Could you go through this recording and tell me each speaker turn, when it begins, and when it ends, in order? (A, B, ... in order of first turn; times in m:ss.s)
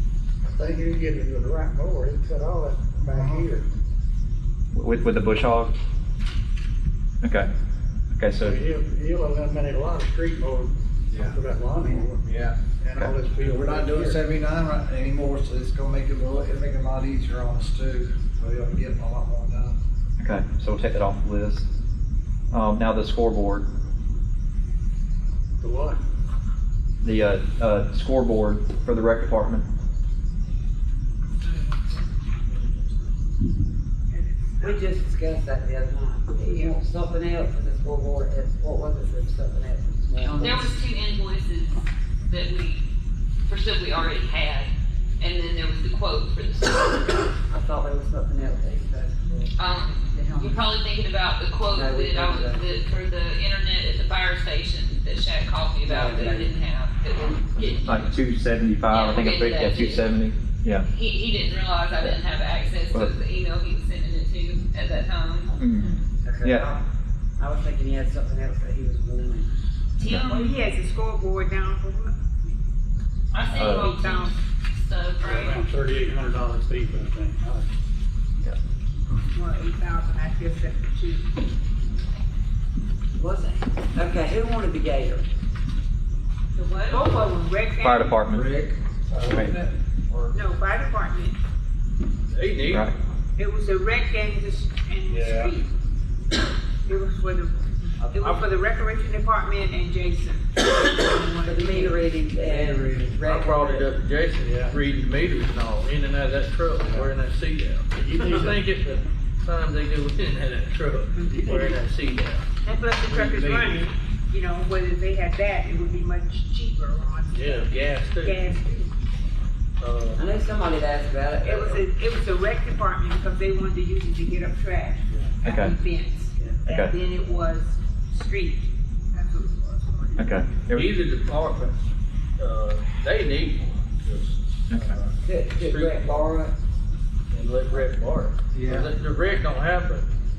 0:00.5-0:03.7 A
0:03.1-0:03.5 B
0:04.7-0:05.7 C
0:07.2-0:07.5 C
0:08.1-0:08.6 C
0:08.4-0:14.2 A
0:11.1-0:12.6 B
0:13.4-0:19.8 B
0:20.2-0:21.7 C
0:22.5-0:23.7 C
0:25.6-0:26.0 A
0:27.0-0:29.7 C
0:32.5-0:33.1 D
0:34.1-0:34.9 E
0:34.6-0:40.7 F
0:36.4-0:36.8 E
0:40.4-0:42.9 G
0:43.4-0:47.2 G
0:47.5-0:49.5 F
0:49.6-0:58.2 G
0:50.2-0:50.6 F
0:51.7-0:52.6 F
0:55.9-0:56.5 F
0:57.9-1:00.9 C
0:58.9-1:00.1 G
1:00.8-1:05.9 G
1:05.6-1:06.7 C
1:06.2-1:06.8 F
1:07.4-1:09.5 F
1:10.0-1:10.6 G
1:10.3-1:12.5 E
1:13.3-1:15.6 G
1:13.3-1:14.4 E
1:13.5-1:13.9 C
1:15.2-1:17.7 A
1:19.3-1:21.3 E
1:23.2-1:25.2 F
1:26.6-1:27.0 G
1:26.9-1:28.2 E
1:27.8-1:28.5 C
1:28.3-1:30.4 B
1:29.3-1:29.6 C
1:30.3-1:31.4 E
1:32.3-1:32.9 D
1:33.4-1:35.7 E
1:35.1-1:35.6 A
1:36.9-1:42.2 E
1:38.0-1:38.4 D
1:41.5-1:43.9 F
1:42.4-1:43.0 A
1:43.2-1:52.4 D
1:44.4-1:44.8 A
1:46.8-1:47.1 A
1:47.9-1:48.6 A
1:51.2-1:51.8 A
1:52.6-1:58.9 E
1:53.1-1:53.9 D
1:57.3-1:58.4 D
1:59.8-2:00.2 D
2:00.2-2:01.8 F
2:01.4-2:10.3 E
2:05.4-2:05.8 C
2:06.7-2:07.0 C
2:10.2-2:10.9 C
2:10.7-2:11.8 D
2:12.4-2:16.3 D
2:15.2-2:16.5 F
2:17.3-2:20.1 D
2:18.5-2:18.9 B